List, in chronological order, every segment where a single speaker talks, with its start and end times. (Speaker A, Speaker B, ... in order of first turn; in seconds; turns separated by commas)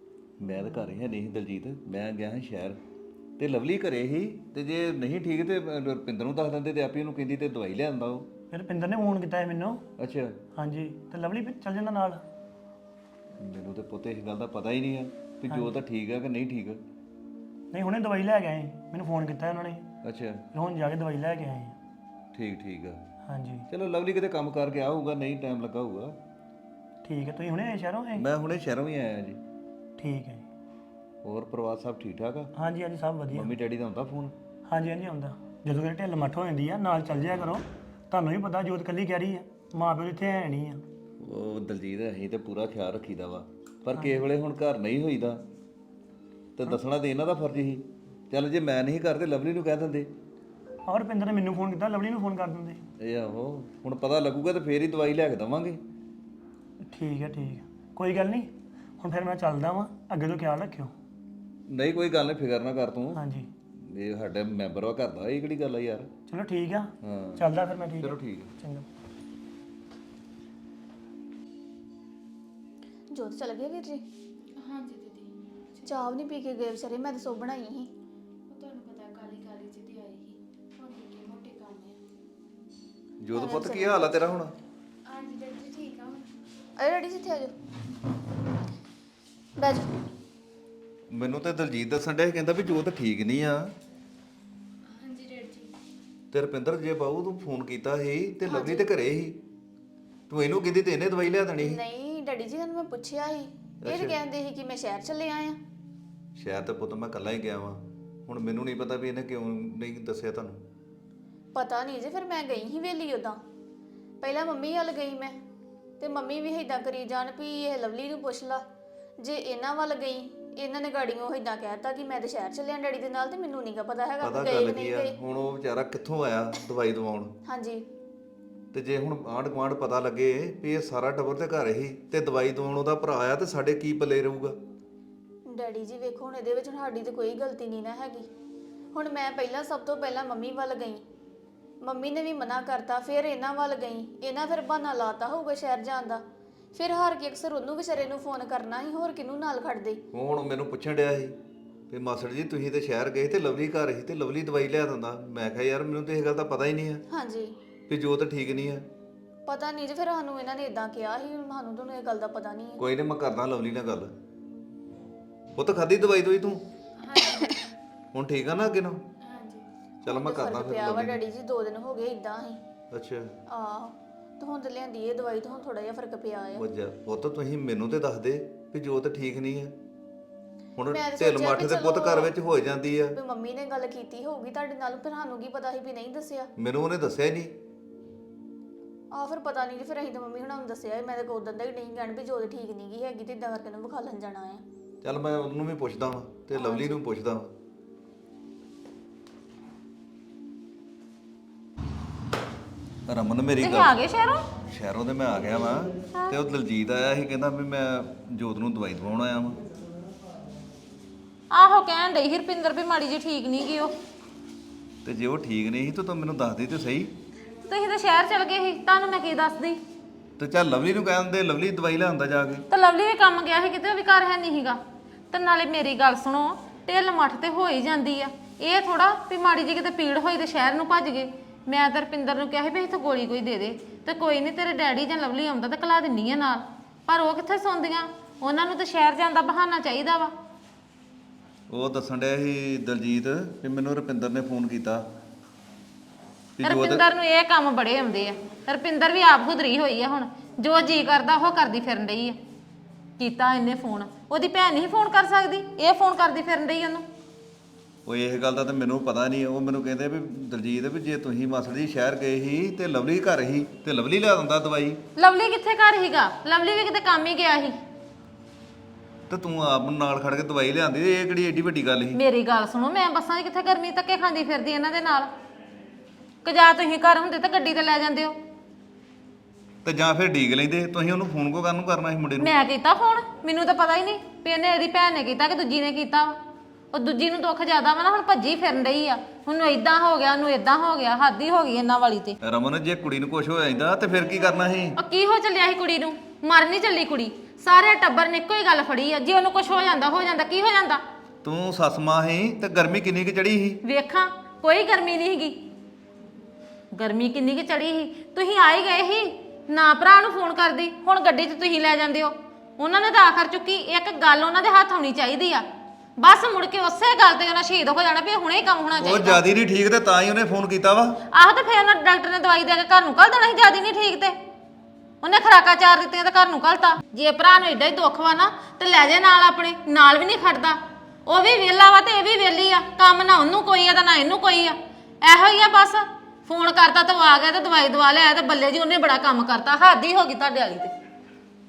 Speaker A: 0.4-2.8, Speaker A: 3.4-8.3, Speaker B: 8.5-9.8, Speaker A: 10.0-10.3, Speaker B: 10.6-12.2, Speaker A: 13.4-16.8, Speaker B: 15.5-15.8, Speaker B: 17.7-19.9, Speaker A: 20.0-20.4, Speaker B: 20.5-21.8, Speaker A: 22.3-23.0, Speaker B: 23.2-23.7, Speaker A: 23.7-26.1, Speaker B: 27.0-28.3, Speaker A: 28.1-29.4, Speaker B: 30.0-30.4, Speaker A: 31.2-32.5, Speaker B: 32.5-33.5, Speaker A: 33.3-34.3, Speaker B: 34.7-40.8, Speaker A: 41.2-45.4, Speaker B: 43.9-44.2, Speaker A: 46.6-50.1, Speaker B: 50.9-52.8, Speaker A: 53.0-55.8, Speaker B: 56.9-60.9, Speaker A: 61.7-63.2, Speaker B: 63.1-63.5, Speaker A: 63.8-66.1, Speaker B: 66.3-68.9, Speaker A: 67.0-67.5, Speaker A: 68.0-68.5, Speaker C: 73.1-74.0, Speaker D: 74.6-76.1, Speaker C: 75.8-77.9, Speaker D: 78.5-82.0, Speaker A: 83.2-84.5, Speaker C: 83.3-84.2, Speaker D: 85.1-86.3, Speaker C: 86.8-87.5, Speaker C: 89.6-89.9, Speaker A: 91.1-93.7, Speaker D: 95.0-95.7, Speaker A: 96.3-99.4, Speaker C: 98.4-98.9, Speaker A: 100.3-101.8, Speaker C: 101.6-105.6, Speaker A: 103.8-104.2, Speaker A: 106.3-110.6, Speaker C: 111.5-113.4, Speaker C: 114.2-115.4, Speaker C: 116.0-118.6, Speaker C: 119.2-125.2, Speaker A: 124.2-127.3, Speaker C: 127.5-127.8, Speaker A: 128.7-134.6, Speaker C: 135.5-138.3, Speaker C: 138.9-141.0, Speaker C: 141.8-146.2, Speaker C: 146.7-150.0, Speaker A: 150.1-151.3, Speaker A: 151.9-157.0, Speaker C: 157.1-157.6, Speaker A: 157.9-158.9, Speaker C: 159.4-162.8, Speaker A: 162.8-164.1, Speaker A: 165.6-166.6, Speaker D: 167.0-167.6, Speaker A: 168.1-169.0, Speaker D: 169.2-169.7, Speaker C: 170.0-172.6, Speaker A: 170.1-171.2, Speaker A: 172.9-173.3, Speaker C: 173.5-176.6, Speaker A: 176.5-179.8, Speaker A: 180.8-183.2, Speaker C: 180.9-182.3, Speaker C: 183.1-186.5, Speaker A: 186.6-187.5, Speaker C: 189.1-194.6, Speaker A: 195.0-197.5, Speaker C: 196.5-197.0, Speaker A: 203.1-203.9, Speaker E: 203.6-204.4, Speaker A: 204.7-209.6, Speaker E: 211.5-213.9, Speaker A: 215.0-217.1, Speaker E: 217.7-219.8, Speaker A: 220.4-222.6, Speaker E: 222.7-224.8, Speaker E: 225.3-240.3, Speaker A: 241.7-245.1, Speaker A: 246.6-247.0, Speaker E: 246.6-252.4, Speaker E: 253.2-257.0, Speaker A: 258.1-265.0, Speaker E: 265.2-267.8, Speaker A: 269.3-272.2, Speaker E: 272.1-275.3, Speaker E: 276.4-278.4, Speaker A: 279.8-282.5, Speaker E: 282.4-286.4, Speaker E: 286.9-292.4, Speaker A: 292.4-294.9, Speaker E: 295.0-301.0, Speaker A: 301.4-303.8, Speaker E: 303.8-305.6, Speaker E: 306.9-315.6, Speaker E: 316.2-319.4, Speaker A: 319.0-321.2, Speaker E: 321.3-324.4, Speaker E: 325.2-340.9